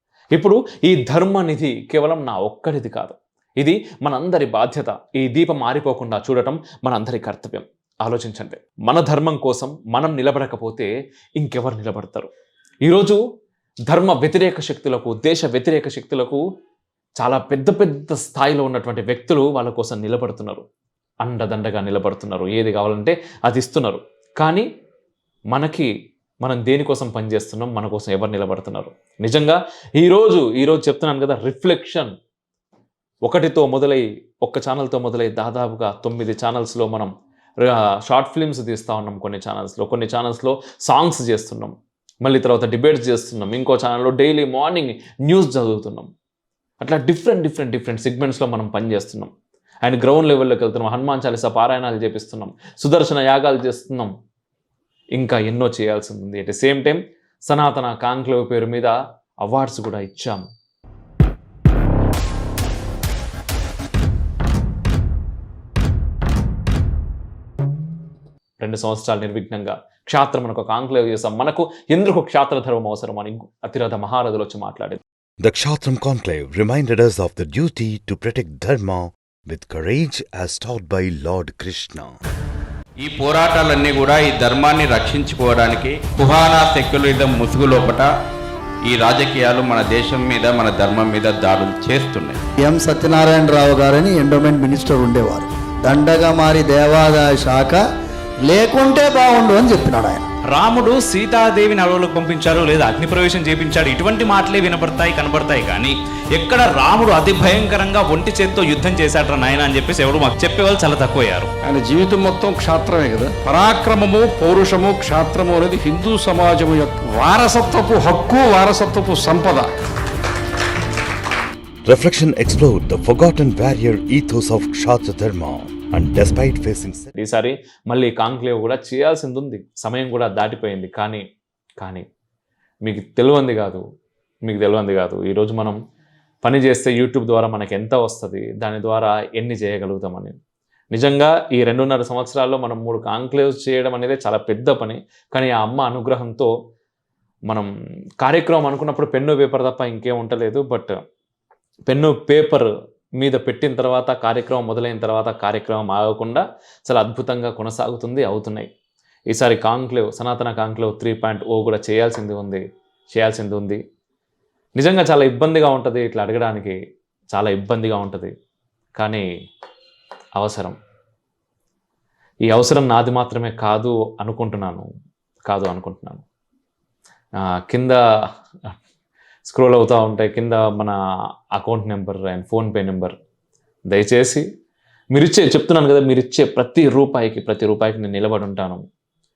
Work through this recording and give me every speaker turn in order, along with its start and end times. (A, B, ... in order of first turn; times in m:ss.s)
0:00.3-0:12.3 A
0:12.8-0:13.2 A
0:13.9-0:16.4 A
0:17.2-0:20.6 A
0:21.2-0:24.6 A
0:25.5-0:25.9 A
0:26.4-0:32.1 A
0:33.2-0:37.1 A
0:37.6-0:46.1 A
0:46.8-0:49.3 A
0:49.8-0:54.1 A
0:55.2-0:58.9 A
0:59.4-1:00.4 A
1:08.6-1:15.0 A
1:15.4-1:22.1 B
1:23.0-1:28.0 C
1:28.8-1:32.4 C
1:32.6-1:37.8 D
1:38.4-1:40.3 D
1:40.5-1:51.5 E
1:51.7-1:59.6 F
2:01.8-2:07.1 B
2:07.2-2:11.2 A
2:12.8-2:13.8 A
2:14.4-2:15.8 A
2:16.4-2:20.3 A
2:20.9-2:26.5 A
2:28.2-2:31.0 A
2:31.9-2:38.7 A
2:39.3-2:42.6 A
2:43.1-2:43.8 A
2:44.8-2:46.8 A
2:47.3-2:48.3 A
2:49.0-2:49.2 A
2:50.4-2:50.8 A
2:52.5-2:54.8 A
2:55.5-2:56.2 A
2:57.7-2:58.0 A
2:59.5-3:01.0 A
3:01.5-3:03.1 A
3:03.9-3:04.4 A
3:05.1-3:08.8 A